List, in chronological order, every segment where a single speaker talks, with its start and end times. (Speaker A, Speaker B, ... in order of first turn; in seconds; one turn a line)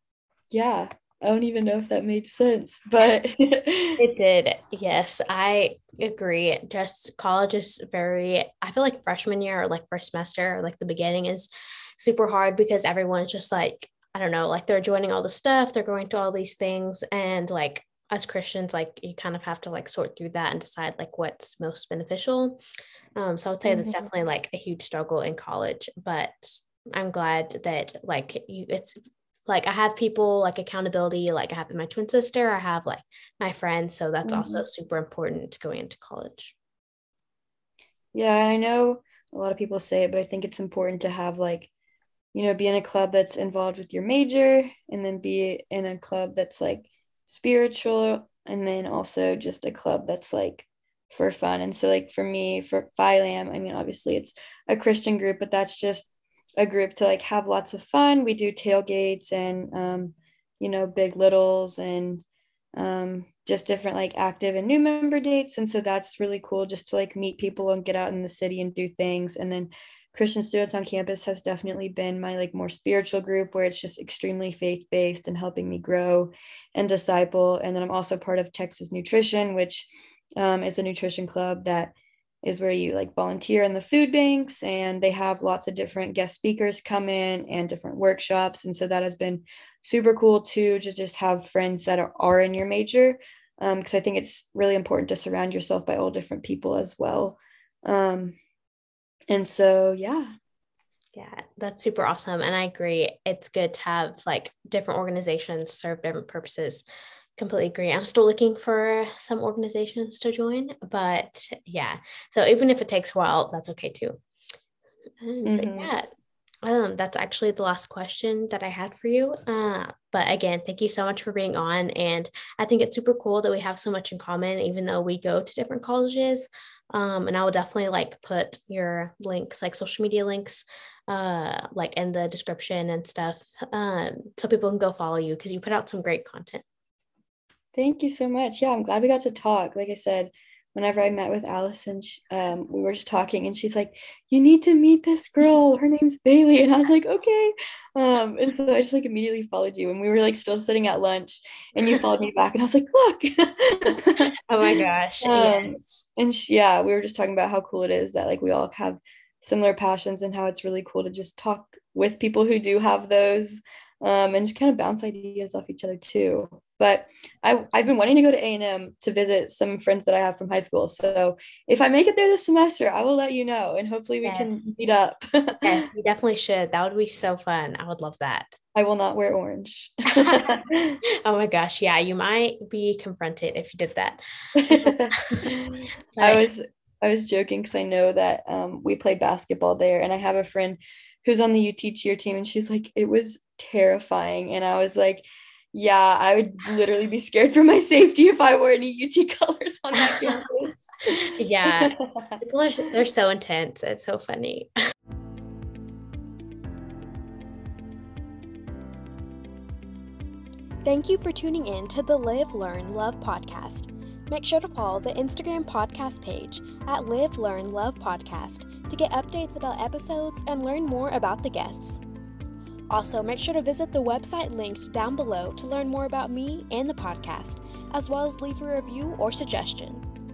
Speaker A: 0.5-4.0
Speaker B: 4.0-22.6
Speaker B: 23.1-36.5
Speaker A: 23.6-24.1
Speaker A: 34.2-34.6
Speaker A: 38.1-41.7
Speaker A: 42.3-62.2
Speaker A: 62.8-98.4
Speaker A: 99.3-100.3
Speaker B: 101.1-106.8
Speaker B: 107.4-114.2
Speaker B: 115.2-116.1
Speaker A: 115.4-115.9
Speaker B: 116.6-136.6
Speaker A: 137.7-154.3
Speaker B: 154.5-156.0
Speaker A: 155.2-175.7
Speaker B: 174.2-174.7
Speaker B: 175.6-178.5
Speaker A: 178.7-181.0
Speaker B: 180.1-185.5
Speaker A: 184.6-202.4
Speaker B: 186.2-186.4
Speaker B: 200.0-200.4
Speaker B: 201.1-204.7
Speaker C: 210.8-222.0
Speaker C: 222.9-230.0